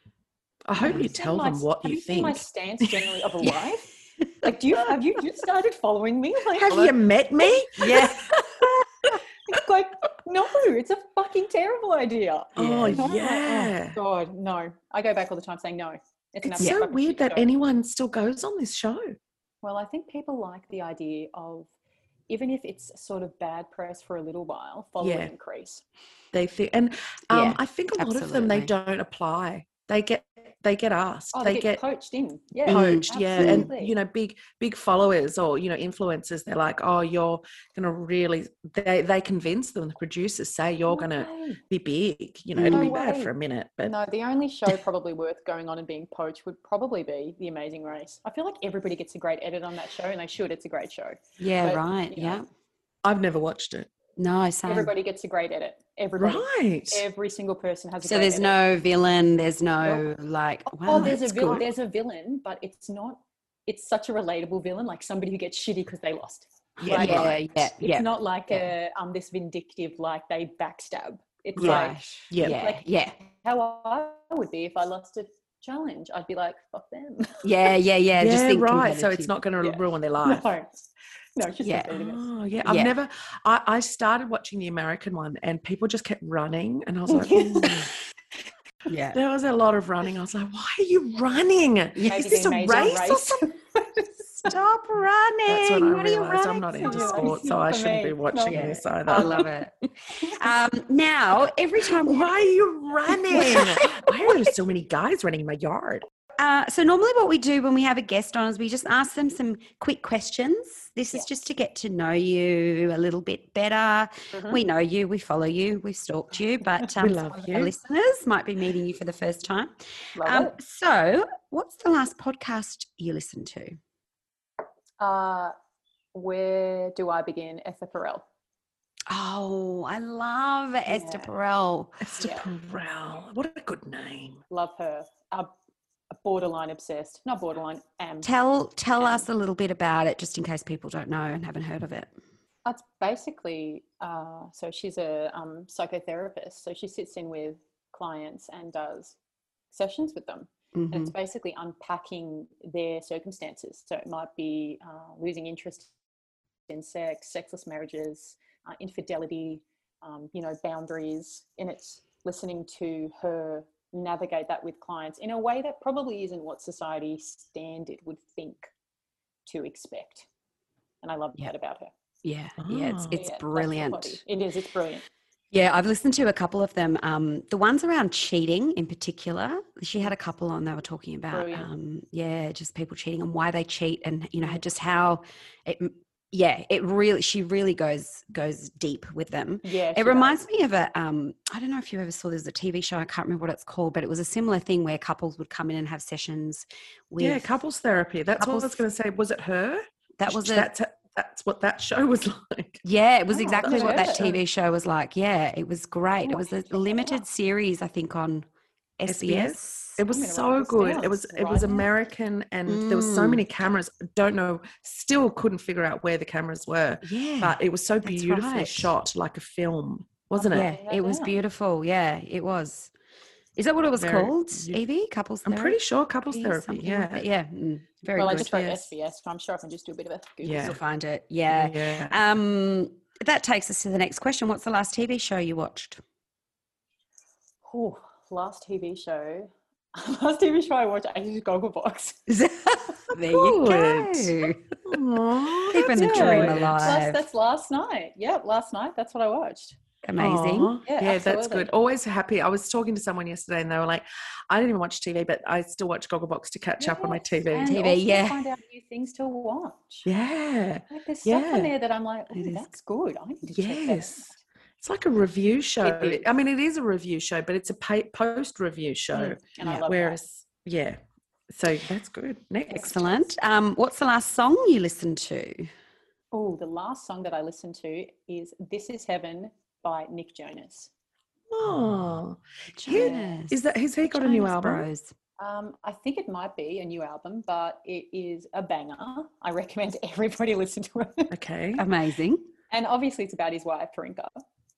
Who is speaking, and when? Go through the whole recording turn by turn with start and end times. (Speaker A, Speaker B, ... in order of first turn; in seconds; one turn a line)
Speaker A: 0.7-3.1
Speaker B: 0.8-3.9
Speaker C: 0.8-1.1
Speaker B: 4.4-8.1
Speaker A: 6.5-8.7
Speaker C: 7.8-8.2
Speaker B: 9.4-17.5
Speaker A: 12.6-14.0
Speaker C: 12.6-13.1
Speaker A: 16.4-19.2
Speaker B: 19.6-21.7
Speaker B: 22.3-25.8
Speaker A: 25.0-25.3
Speaker A: 26.3-31.8
Speaker C: 27.3-28.7
Speaker B: 31.3-33.9
Speaker C: 32.6-33.7
Speaker A: 32.6-43.9
Speaker B: 40.9-41.6
Speaker C: 42.5-42.9
Speaker B: 42.7-52.4
Speaker C: 51.4-52.4
Speaker A: 53.0-53.9
Speaker C: 54.2-54.9
Speaker B: 54.6-58.6
Speaker A: 56.2-57.0
Speaker C: 58.0-61.6
Speaker B: 60.7-77.4
Speaker A: 60.9-61.6
Speaker A: 66.8-67.4
Speaker C: 66.9-68.7
Speaker A: 71.6-72.6
Speaker C: 71.6-73.1
Speaker C: 77.4-79.3
Speaker A: 78.2-80.5
Speaker B: 79.6-80.8
Speaker B: 81.3-82.2
Speaker C: 81.6-81.9
Speaker A: 81.9-87.9
Speaker C: 82.6-82.9
Speaker B: 87.2-87.7
Speaker C: 88.9-89.2
Speaker A: 89.1-93.4
Speaker C: 92.0-92.8
Speaker B: 92.1-94.5
Speaker C: 94.4-97.4
Speaker A: 95.5-99.4
Speaker B: 96.8-99.5
Speaker C: 98.5-102.3
Speaker A: 102.0-106.0
Speaker C: 103.3-103.8
Speaker B: 103.3-104.0
Speaker C: 106.4-123.8
Speaker B: 114.3-114.6
Speaker A: 117.0-117.7
Speaker B: 120.2-120.5
Speaker B: 125.0-125.5
Speaker B: 126.1-128.2
Speaker C: 129.1-132.0
Speaker B: 130.9-131.3
Speaker A: 132.0-134.4
Speaker B: 132.2-132.5
Speaker B: 134.5-135.5
Speaker B: 136.2-138.3
Speaker C: 138.2-142.1
Speaker B: 142.6-149.2
Speaker B: 149.7-155.9
Speaker C: 150.7-151.1
Speaker B: 156.7-168.7
Speaker B: 169.4-170.3
Speaker B: 171.0-171.9
Speaker C: 172.2-174.2
Speaker A: 172.6-173.2
Speaker B: 173.1-175.0
Speaker C: 175.5-197.5
Speaker B: 181.3-181.7
Speaker B: 189.6-190.4
Speaker A: 197.2-202.8
Speaker C: 198.4-198.8
Speaker C: 200.2-200.7
Speaker C: 202.8-208.4
Speaker B: 203.3-204.4
Speaker A: 203.6-204.4
Speaker B: 206.2-207.2
Speaker C: 209.0-210.0
Speaker A: 209.1-220.7
Speaker B: 210.1-211.9
Speaker C: 212.7-213.4
Speaker C: 217.0-218.9
Speaker B: 220.3-221.3
Speaker C: 220.5-222.9
Speaker C: 223.6-225.8
Speaker A: 223.9-224.8
Speaker A: 225.4-227.2
Speaker C: 226.3-228.8
Speaker B: 228.2-230.8
Speaker A: 228.3-228.6
Speaker A: 230.4-230.8
Speaker C: 230.6-236.0
Speaker A: 231.5-232.2
Speaker B: 237.6-242.3
Speaker C: 242.3-244.8
Speaker A: 243.2-247.0
Speaker C: 245.6-247.2
Speaker B: 245.9-249.8
Speaker C: 250.0-250.7
Speaker A: 250.2-257.8
Speaker B: 250.8-251.7
Speaker B: 256.8-260.1
Speaker C: 257.6-258.4
Speaker A: 260.1-261.7
Speaker B: 260.9-264.4
Speaker C: 262.3-262.7
Speaker A: 263.5-264.3
Speaker A: 264.8-271.0
Speaker B: 265.8-266.2
Speaker B: 269.1-270.2
Speaker A: 271.5-273.1
Speaker C: 272.7-275.7
Speaker B: 276.3-280.9
Speaker A: 281.5-284.9
Speaker C: 282.8-285.1
Speaker B: 282.9-283.4
Speaker B: 285.4-291.3
Speaker A: 291.3-291.8
Speaker C: 291.8-292.5
Speaker B: 292.7-294.4